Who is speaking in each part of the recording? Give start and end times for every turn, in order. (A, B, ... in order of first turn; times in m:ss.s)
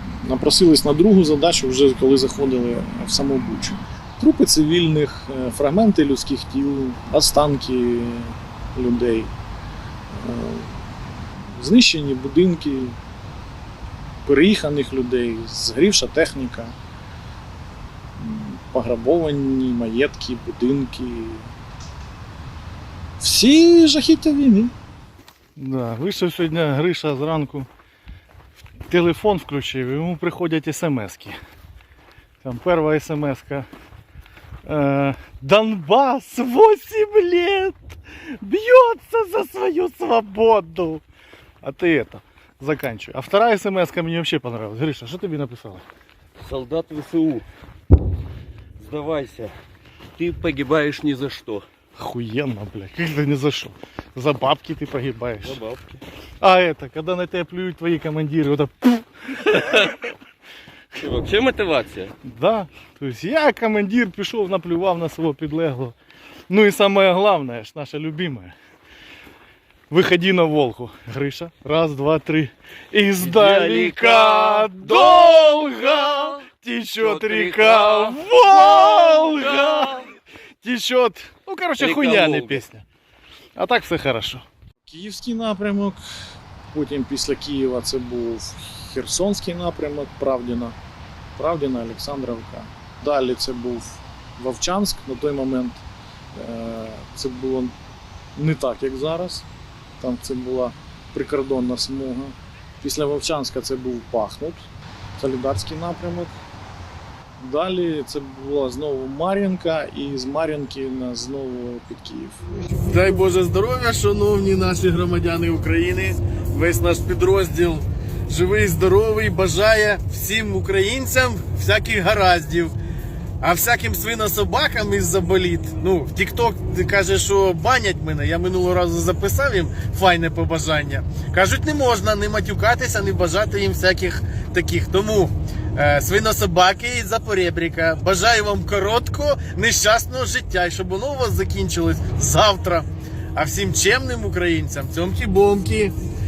0:00.2-0:09.3 A
0:10.1-0:10.7 A
0:11.5-0:13.0 A
0:14.2-0:16.7 A
0:18.2-0:21.5 A
0:23.2-0:24.7 A
0:25.6-0:27.7 B
0:28.9-0:31.4 B
0:32.4-0:33.6 B
0:34.6-0:41.0 B
0:41.6-0:45.8 B
0:46.4-0:47.4 C
0:48.8-0:49.5 C
0:50.2-0:51.6 C
0:52.0-0:55.6 B
0:55.4-0:56.0 C
0:56.4-0:59.6 B
1:01.0-1:02.1 C
1:02.2-1:05.9 B
1:06.5-1:08.5 B
1:09.9-1:20.1 B
1:13.2-1:15.6 C
1:17.0-1:19.8 C
1:20.6-1:22.8 B
1:21.8-1:22.6 C
1:23.6-1:24.4 B
1:24.8-1:26.0 A
1:26.7-1:30.7 A
1:31.4-1:35.8 A
1:36.3-1:37.7 A
1:38.4-1:39.4 A
1:40.0-1:46.3 A
1:47.4-1:52.4 A
1:52.9-2:02.7 D
2:03.4-2:25.9 D